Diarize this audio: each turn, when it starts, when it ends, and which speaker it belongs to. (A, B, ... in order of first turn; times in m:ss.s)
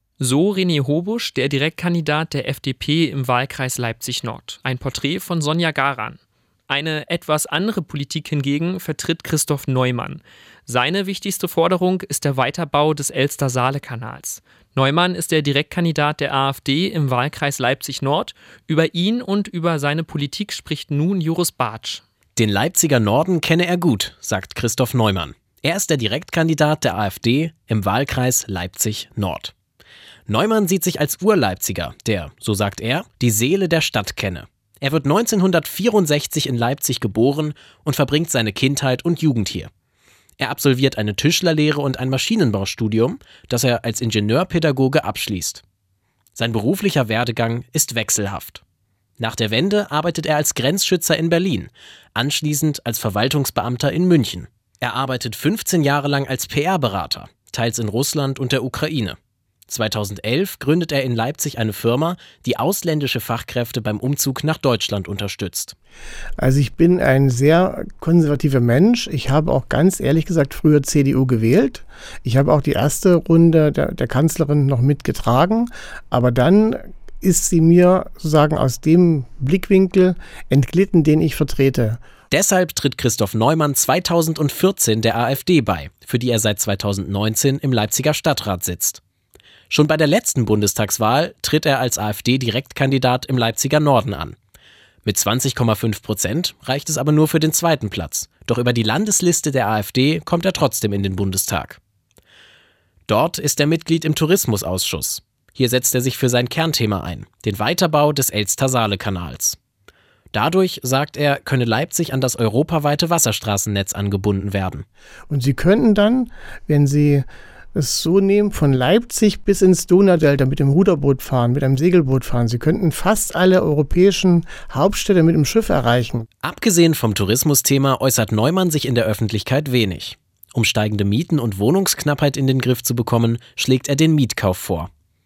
0:00.2-0:22.0 A
0:22.4-0:29.5 B
0:30.3-0:39.7 B
0:40.4-0:45.6 B
0:46.4-0:48.6 B
0:49.2-0:59.2 B
0:59.7-1:05.8 B
1:06.4-1:22.0 C
1:22.3-1:29.0 B
1:29.7-1:34.4 B
1:35.0-1:41.8 B
1:43.1-1:49.6 B
1:50.3-1:54.8 B
1:55.3-2:06.3 C
2:06.4-2:14.9 B